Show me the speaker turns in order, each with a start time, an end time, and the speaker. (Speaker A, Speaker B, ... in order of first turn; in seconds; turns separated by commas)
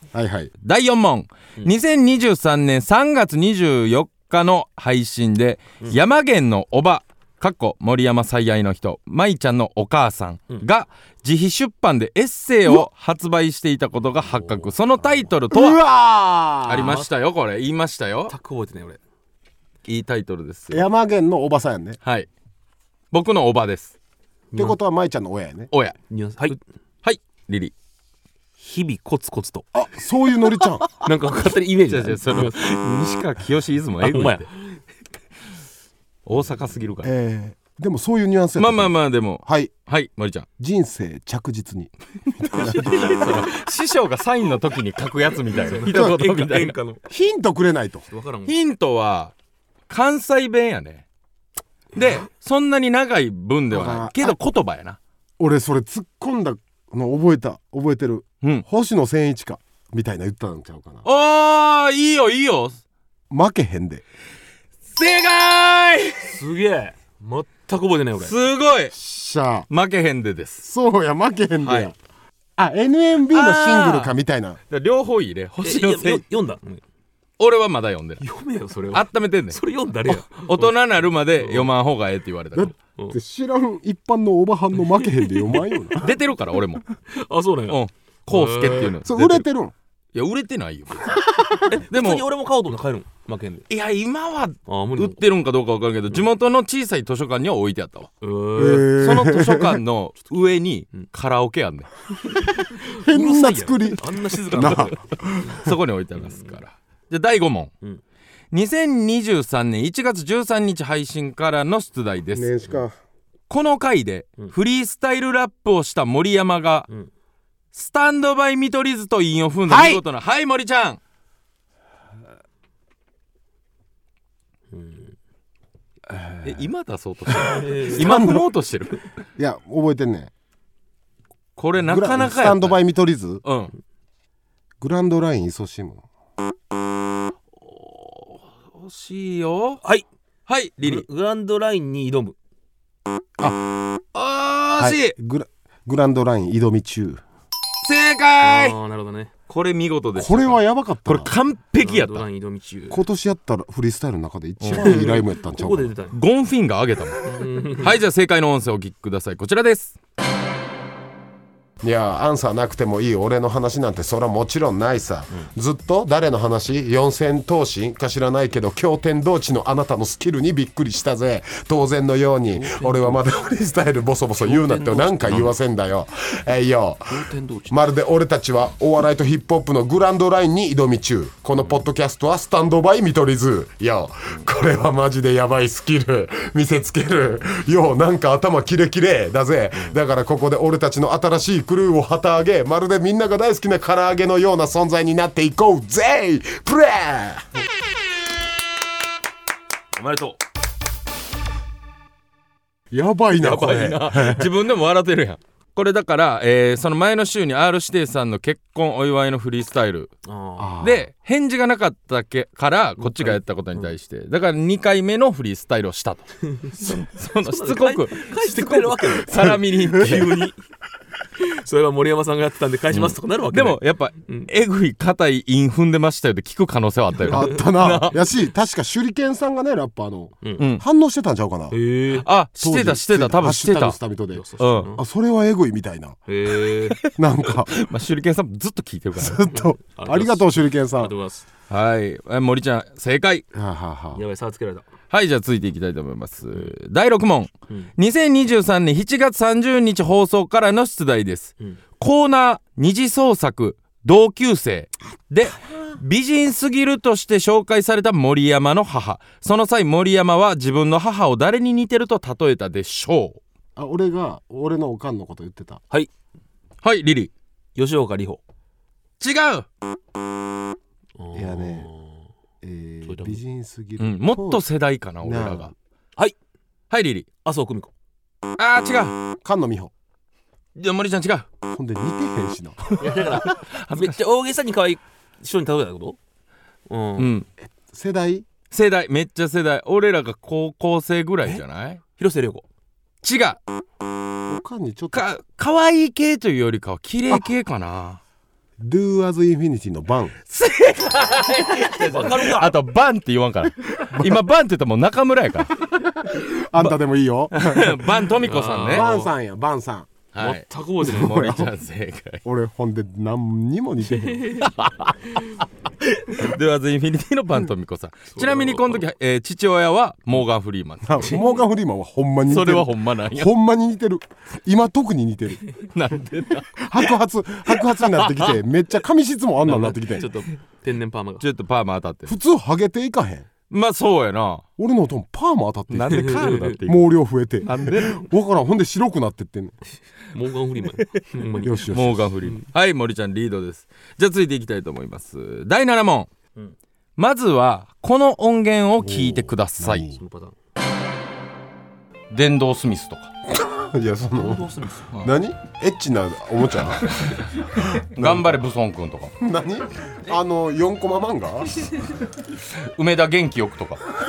Speaker A: 0.1-0.5, Speaker B: 0.6-15.8, Speaker C: 14.2-15.1, Speaker A: 15.5-17.0, Speaker B: 16.7-18.3, Speaker C: 16.8-17.1, Speaker C: 18.3-19.0, Speaker B: 19.9-20.8, Speaker A: 20.7-22.0, Speaker B: 23.1-23.9, Speaker C: 24.5-24.8, Speaker A: 24.6-25.7, Speaker B: 25.7-26.0, Speaker C: 26.1-26.6, Speaker B: 26.5-27.7, Speaker C: 28.6-29.7, Speaker A: 29.8-30.9, Speaker C: 31.0-32.6, Speaker B: 31.9-34.5, Speaker C: 34.0-34.5, Speaker B: 36.3-37.1, Speaker A: 37.0-39.7, Speaker B: 38.6-40.5, Speaker A: 40.6-43.3, Speaker B: 42.5-46.8, Speaker C: 42.5-43.5, Speaker C: 45.5-47.0, Speaker A: 45.9-46.2, Speaker A: 47.1-48.1, Speaker C: 48.1-48.5, Speaker B: 48.5-49.3, Speaker B: 49.9-51.0, Speaker B: 51.9-55.0, Speaker A: 53.7-54.4, Speaker A: 55.4-61.0, Speaker B: 61.0-62.8, Speaker A: 63.3-64.0, Speaker B: 64.9-66.3, Speaker C: 66.2-68.3, Speaker B: 68.2-69.0, Speaker A: 68.9-69.7, Speaker B: 69.7-70.7, Speaker A: 70.6-72.0, Speaker B: 71.6-71.9, Speaker A: 72.6-74.6, Speaker B: 73.3-74.2, Speaker B: 74.7-76.2, Speaker C: 75.6-76.8, Speaker B: 77.4-78.2, Speaker C: 78.2-80.7, Speaker B: 78.9-82.7, Speaker C: 81.3-81.7, Speaker A: 82.5-86.1, Speaker B: 86.0-86.8, Speaker C: 87.1-89.0, Speaker B: 87.7-89.5, Speaker A: 89.0-89.7, Speaker B: 90.1-91.2, Speaker C: 91.7-93.7, Speaker B: 91.9-92.2, Speaker B: 93.7-98.1, Speaker C: 94.7-95.2, Speaker C: 98.2-99.0, Speaker A: 98.6-99.8, Speaker B: 98.9-101.9, Speaker C: 102.6-105.6, Speaker A: 102.9-105.7, Speaker B: 105.5-107.7, Speaker C: 106.2-106.6, Speaker B: 108.5-112.6, Speaker A: 112.3-113.0, Speaker B: 113.5-116.9, Speaker B: 117.7-121.0, Speaker A: 119.7-120.0, Speaker C: 124.7-125.2, Speaker B: 126.4-129.0, Speaker C: 127.4-128.3, Speaker A: 127.9-128.5, Speaker A: 129.4-130.3, Speaker B: 131.6-132.8, Speaker A: 131.8-133.4, Speaker B: 133.4-133.7, Speaker A: 134.8-136.1, Speaker B: 138.7-139.8, Speaker B: 140.5-141.1, Speaker C: 140.8-142.4, Speaker A: 143.4-143.7, Speaker B: 144.1-145.1, Speaker A: 144.8-147.2, Speaker B: 147.8-148.8, Speaker C: 148.4-149.3, Speaker B: 149.5-152.3, Speaker A: 150.2-151.3, Speaker C: 151.8-153.0, Speaker A: 152.9-155.9, Speaker B: 154.6-155.0, Speaker C: 154.7-156.2, Speaker B: 156.1-157.3, Speaker C: 157.2-158.0, Speaker B: 157.8-160.0, Speaker A: 161.8-197.5, Speaker C: 172.5-173.2, Speaker C: 174.4-175.5, Speaker C: 177.1-177.8, Speaker C: 200.0-200.4, Speaker A: 202.9-204.5, Speaker B: 203.4-210.1, Speaker C: 210.2-210.8, Speaker A: 210.6-211.1, Speaker B: 210.8-220.5, Speaker C: 213.0-213.9, Speaker C: 216.5-220.6, Speaker A: 219.8-220.2, Speaker C: 221.4-224.5, Speaker B: 222.9-228.2, Speaker A: 227.3-231.8, Speaker B: 230.6-230.8, Speaker C: 231.7-232.3, Speaker B: 232.2-234.0, Speaker A: 232.6-236.2, Speaker C: 234.3-235.0, Speaker B: 234.6-234.9, Speaker C: 236.3-237.0, Speaker A: 237.2-237.8, Speaker B: 237.7-239.4, Speaker A: 239.2-241.1, Speaker C: 239.5-241.4, Speaker B: 241.7-243.4, Speaker A: 243.5-244.2, Speaker C: 244.2-244.9, Speaker B: 245.1-263.4, Speaker A: 263.8-265.8, Speaker B: 266.8-267.3, Speaker C: 267.8-268.4, Speaker B: 269.2-269.7, Speaker C: 271.2-272.3, Speaker A: 271.3-271.9, Speaker A: 272.6-274.6, Speaker C: 273.1-273.4, Speaker B: 274.0-275.7, Speaker A: 275.2-275.7, Speaker B: 276.9-277.3, Speaker C: 277.4-277.9, Speaker B: 278.6-279.2, Speaker A: 279.4-279.9, Speaker B: 280.8-281.5, Speaker A: 281.7-283.0, Speaker C: 283.0-286.2, Speaker B: 283.5-284.2, Speaker C: 286.9-287.3, Speaker B: 287.2-287.5, Speaker A: 287.7-288.5, Speaker B: 288.7-292.0, Speaker C: 292.2-292.6, Speaker B: 293.2-293.6, Speaker A: 294.5-295.3, Speaker B: 295.1-298.2, Speaker A: 298.8-300.4, Speaker B: 300.5-305.8, Speaker C: 302.0-302.8, Speaker A: 304.1-304.4, Speaker A: 306.2-308.1, Speaker B: 307.5-309.1, Speaker C: 308.4-309.3, Speaker A: 308.9-310.1, Speaker B: 310.3-312.4, Speaker C: 310.4-311.4, Speaker A: 311.0-311.7, Speaker A: 312.4-314.6, Speaker B: 314.6-321.4, Speaker C: 318.3-319.0, Speaker A: 321.1-325.6, Speaker B: 322.5-323.5, Speaker B: 325.9-326.9, Speaker A: 326.8-330.3, Speaker B: 327.8-328.6, Speaker C: 329.6-331.4, Speaker B: 331.4-332.4, Speaker A: 332.3-333.5, Speaker B: 333.7-334.6, Speaker A: 334.8-339.8, Speaker B: 335.9-337.1, Speaker C: 336.1-336.8, Speaker B: 337.6-338.3, Speaker C: 340.3-341.9, Speaker A: 341.6-342.3, Speaker B: 341.9-346.3, Speaker B: 347.2-350.1, Speaker A: 349.0-350.2, Speaker C: 350.2-350.6, Speaker B: 352.3-353.3, Speaker A: 353.5-357.2, Speaker C: 354.4-355.2, Speaker A: 357.8-358.6, Speaker B: 357.9-359.3, Speaker A: 359.4-361.8, Speaker B: 362.8-364.0